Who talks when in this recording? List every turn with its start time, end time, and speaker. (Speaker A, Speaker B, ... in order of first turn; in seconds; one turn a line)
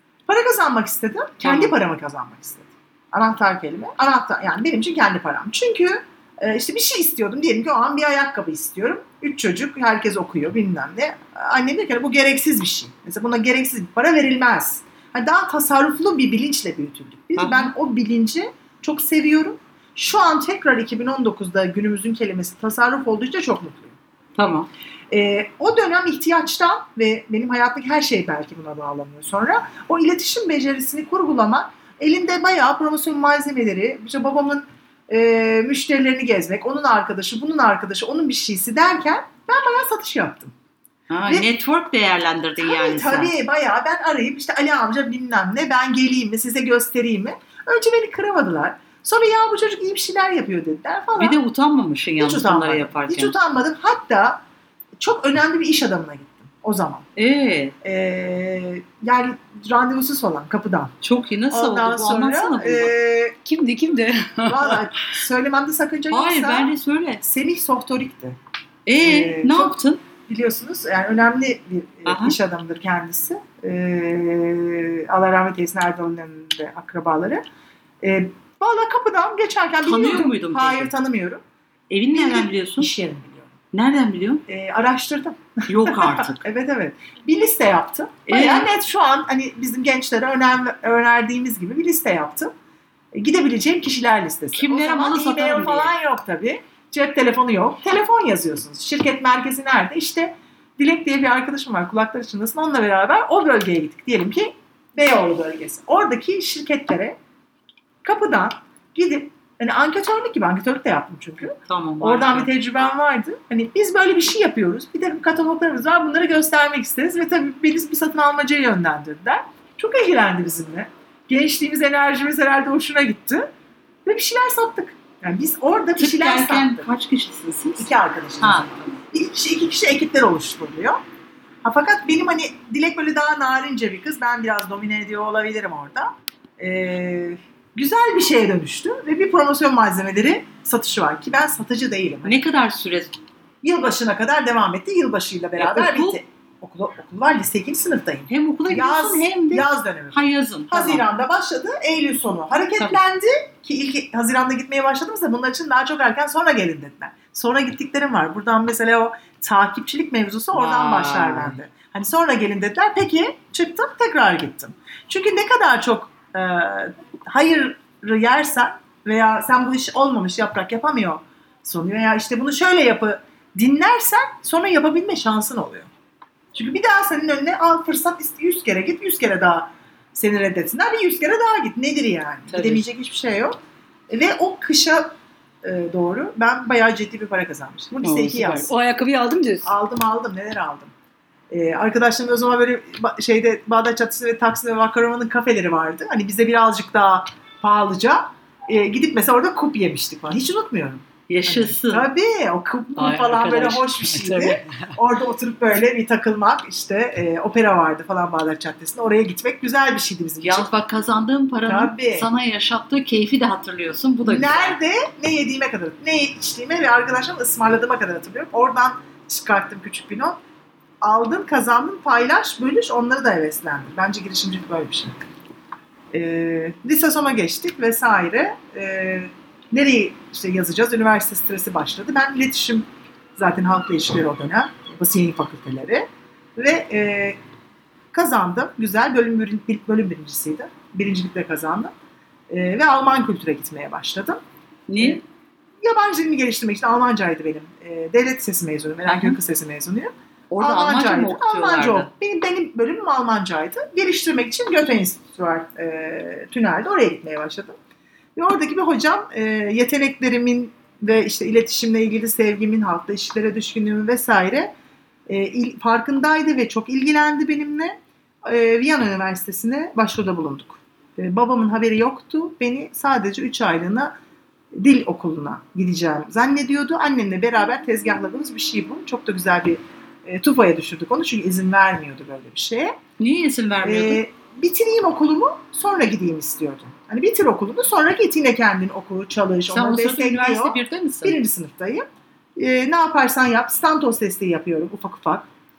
Speaker A: 0.3-24.0
Speaker B: 1.4-1.7
Speaker B: 17.4-17.7
Speaker B: 24.4-24.7
Speaker A: 25.1-40.5
Speaker B: 41.1-43.3
Speaker A: 42.6-51.4
Speaker B: 51.2-53.3
Speaker A: 52.2-54.4
Speaker A: 55.0-57.0
Speaker B: 57.1-57.7
Speaker A: 57.8-60.9
Speaker B: 61.0-62.9
Speaker A: 61.5-63.4
Speaker C: 63.4-64.6
Speaker A: 64.5-68.4
Speaker B: 66.1-67.2
Speaker B: 68.8-70.0
Speaker A: 69.0-77.4
Speaker B: 72.0-72.4
Speaker A: 78.0-81.4
Speaker B: 79.8-80.9
Speaker B: 81.9-82.9
Speaker A: 82.1-83.6
Speaker B: 83.7-84.4
Speaker A: 84.5-92.5
Speaker B: 85.7-86.4
Speaker B: 88.3-88.7
Speaker A: 93.1-107.2
Speaker B: 94.5-95.9
Speaker A: 108.0-123.5
Speaker B: 111.7-112.5
Speaker A: 124.0-126.8
Speaker B: 126.0-127.9
Speaker A: 127.8-131.0
Speaker B: 128.4-128.7
Speaker A: 131.6-142.4
Speaker B: 142.2-143.2
Speaker A: 143.6-175.9
Speaker B: 145.6-146.2
Speaker B: 148.3-151.1
Speaker B: 160.5-161.6
Speaker A: 176.5-183.6
Speaker C: 182.5-182.8
Speaker A: 184.1-188.7
Speaker C: 188.0-189.7
Speaker A: 189.6-190.9
Speaker A: 191.5-210.7
Speaker B: 201.3-202.1
Speaker C: 203.0-204.6
Speaker B: 203.4-203.7
Speaker B: 210.4-214.8
Speaker A: 211.7-212.3
Speaker A: 214.2-220.4
Speaker A: 221.0-225.2
Speaker A: 226.1-237.4
Speaker A: 238.1-241.9
Speaker A: 242.5-244.4
Speaker B: 244.9-245.2
Speaker A: 245.8-257.7
Speaker B: 249.1-249.3
Speaker B: 250.5-252.1
Speaker A: 258.4-264.7
Speaker A: 265.3-274.1
Speaker A: 274.7-283.0
Speaker B: 283.2-284.2
Speaker A: 283.8-292.0
Speaker B: 289.7-291.4
Speaker A: 292.6-295.5